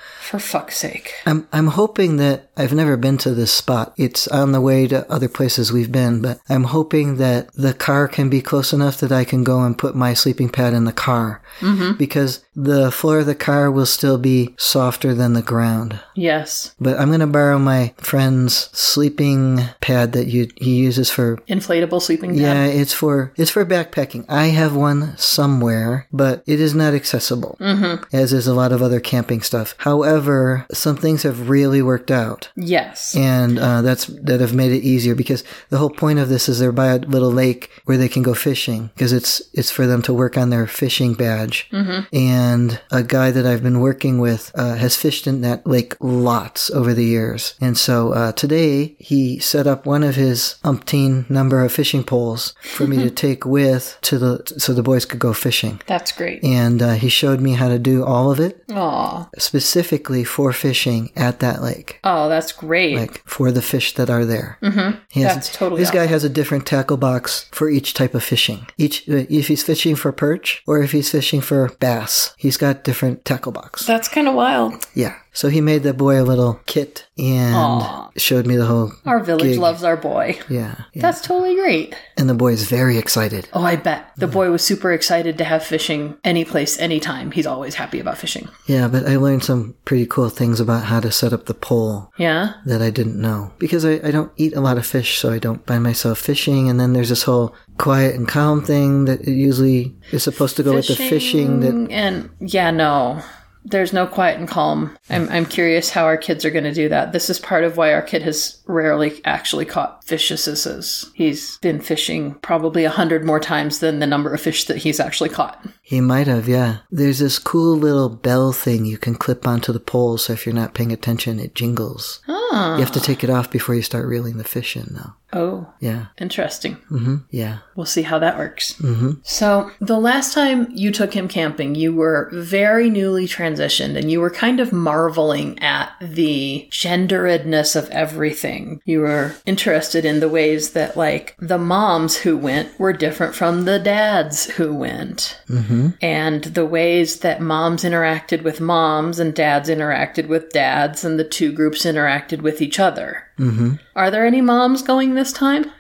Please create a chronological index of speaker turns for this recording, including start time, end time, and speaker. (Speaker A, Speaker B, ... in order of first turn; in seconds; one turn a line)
Speaker A: 0.2-1.2
Speaker B: 1.2-11.4
Speaker A: 11.6-12.0
Speaker B: 11.9-16.0
Speaker A: 16.2-16.7
Speaker B: 16.8-21.4
Speaker A: 21.5-22.6
Speaker B: 22.3-27.6
Speaker A: 27.6-28.0
Speaker B: 28.1-32.5
Speaker A: 32.6-33.2
Speaker B: 33.1-55.8
Speaker A: 41.7-42.1
Speaker A: 52.8-53.1
Speaker A: 55.9-56.4
Speaker B: 56.4-58.6
Speaker A: 58.7-59.3
Speaker B: 59.3-62.0
Speaker A: 62.0-63.1
Speaker B: 62.9-64.6
Speaker A: 64.6-66.0
Speaker B: 65.1-73.9
Speaker A: 73.8-74.8
Speaker B: 75.0-79.8
Speaker A: 77.5-78.1
Speaker A: 79.1-80.5
Speaker B: 80.5-81.2
Speaker A: 81.0-82.0
Speaker B: 82.2-83.5
Speaker A: 83.5-88.5
Speaker B: 88.7-92.1
Speaker A: 92.2-92.6
Speaker B: 92.6-101.8
Speaker A: 100.7-115.7
Speaker B: 115.9-122.2
Speaker A: 122.3-123.2
Speaker B: 122.8-125.2
Speaker A: 125.3-126.8
Speaker B: 125.8-126.1
Speaker B: 126.9-127.6
Speaker A: 127.8-145.4
Speaker B: 128.8-129.2
Speaker B: 145.5-145.9
Speaker A: 146.0-153.3
Speaker B: 153.4-153.8
Speaker A: 153.9-155.7